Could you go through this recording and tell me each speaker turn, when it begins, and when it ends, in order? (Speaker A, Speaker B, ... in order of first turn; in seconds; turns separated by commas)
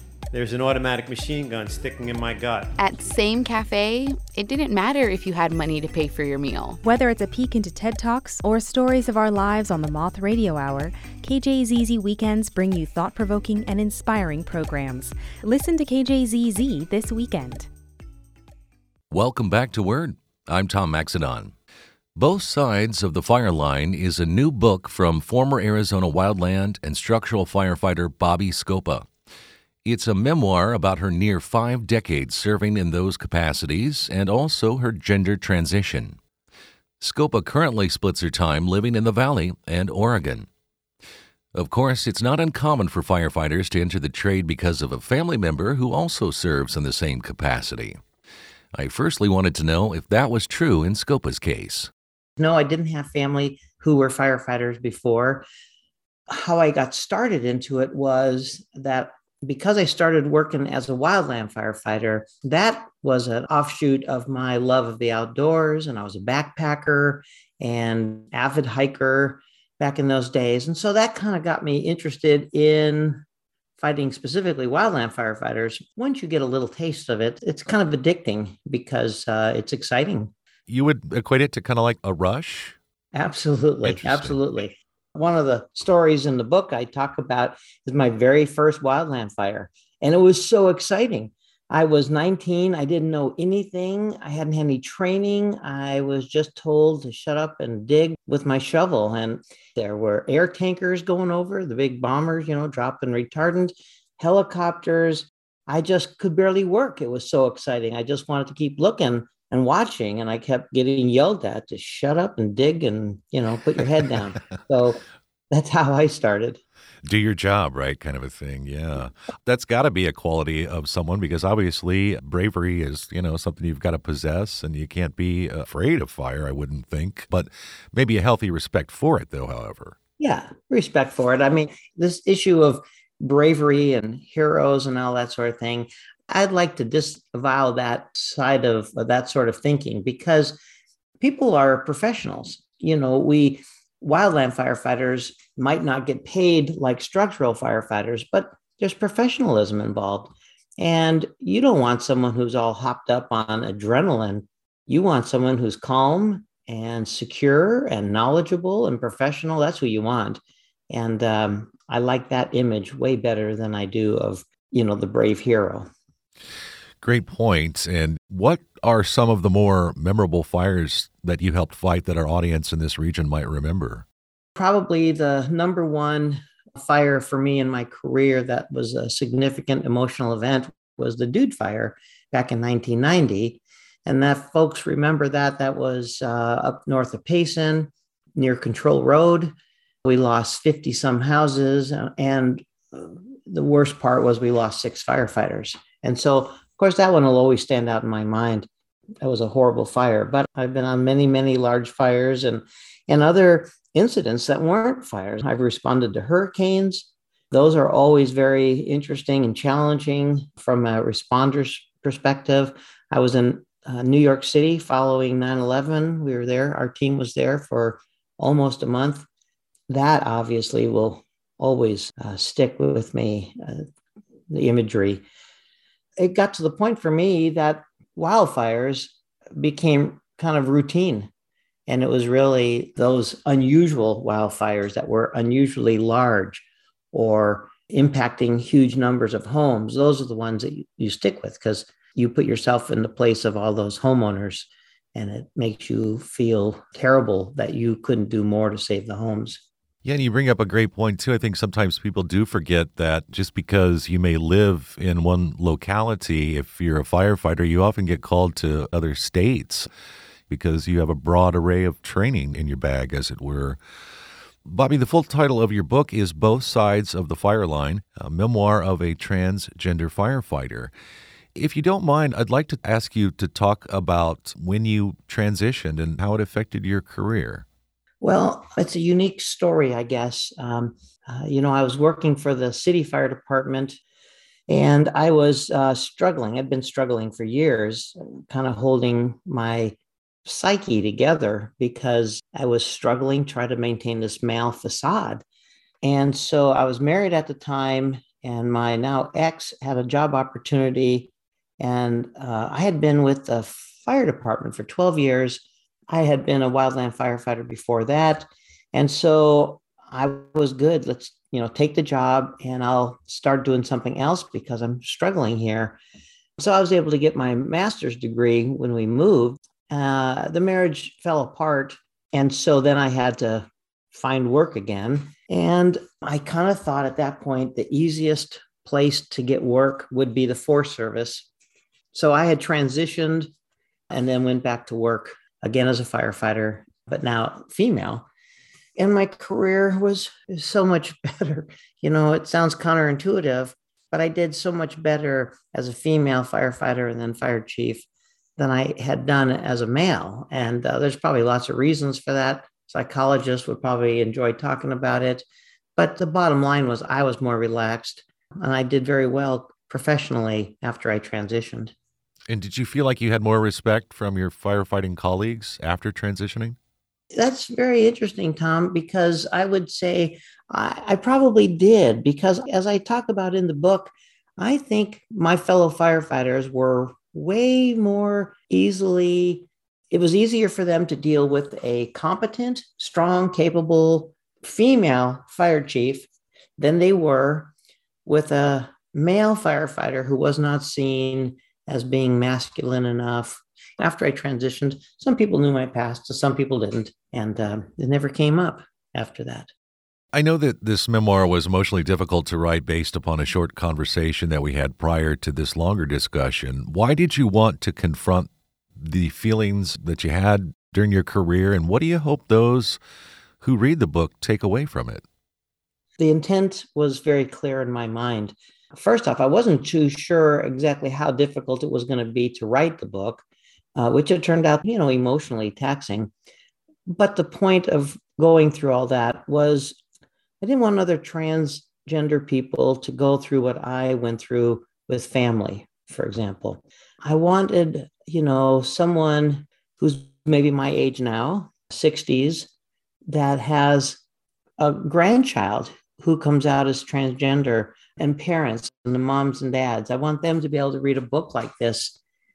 Speaker A: 0.3-2.8, Speaker B: 2.8-6.8, Speaker C: 6.8-17.7, Speaker D: 19.1-21.5, Speaker D: 22.1-29.1, Speaker D: 29.8-36.2, Speaker D: 37.0-40.5, Speaker D: 41.5-48.0, Speaker D: 48.7-51.9, Speaker E: 52.4-55.4, Speaker E: 56.3-73.2, Speaker E: 73.8-80.3, Speaker D: 80.7-82.8, Speaker E: 83.1-116.6, Speaker D: 83.8-84.4, Speaker D: 117.0-129.9, Speaker E: 130.2-140.6, Speaker E: 141.2-160.4, Speaker E: 160.9-165.9, Speaker D: 167.0-174.0, Speaker E: 174.6-189.5, Speaker E: 190.0-198.7, Speaker E: 199.2-219.2, Speaker E: 219.9-223.8, Speaker E: 224.5-225.2, Speaker E: 226.2-231.3, Speaker E: 231.9-249.6, Speaker D: 250.0-259.9, Speaker D: 260.5-263.8, Speaker D: 264.6-270.9, Speaker D: 271.5-277.6, Speaker E: 278.2-284.0, Speaker E: 284.7-295.4, Speaker E: 296.0-316.0, Speaker E: 316.6-331.5, Speaker E: 332.1-333.5, Speaker E: 334.1-338.2, Speaker E: 339.0-348.0, Speaker E: 348.6-355.4, Speaker E: 355.9-361.9, Speaker D: 362.5-366.8, Speaker E: 367.3-387.7, Speaker E: 388.2-399.7, Speaker D: 400.3-413.0, Speaker D: 413.6-415.2, Speaker E: 416.2-423.4, Speaker E: 423.9-426.3, Speaker E: 427.1-430.0, Speaker E: 430.6-442.7, Speaker E: 443.3-444.2, Speaker E: 444.8-452.1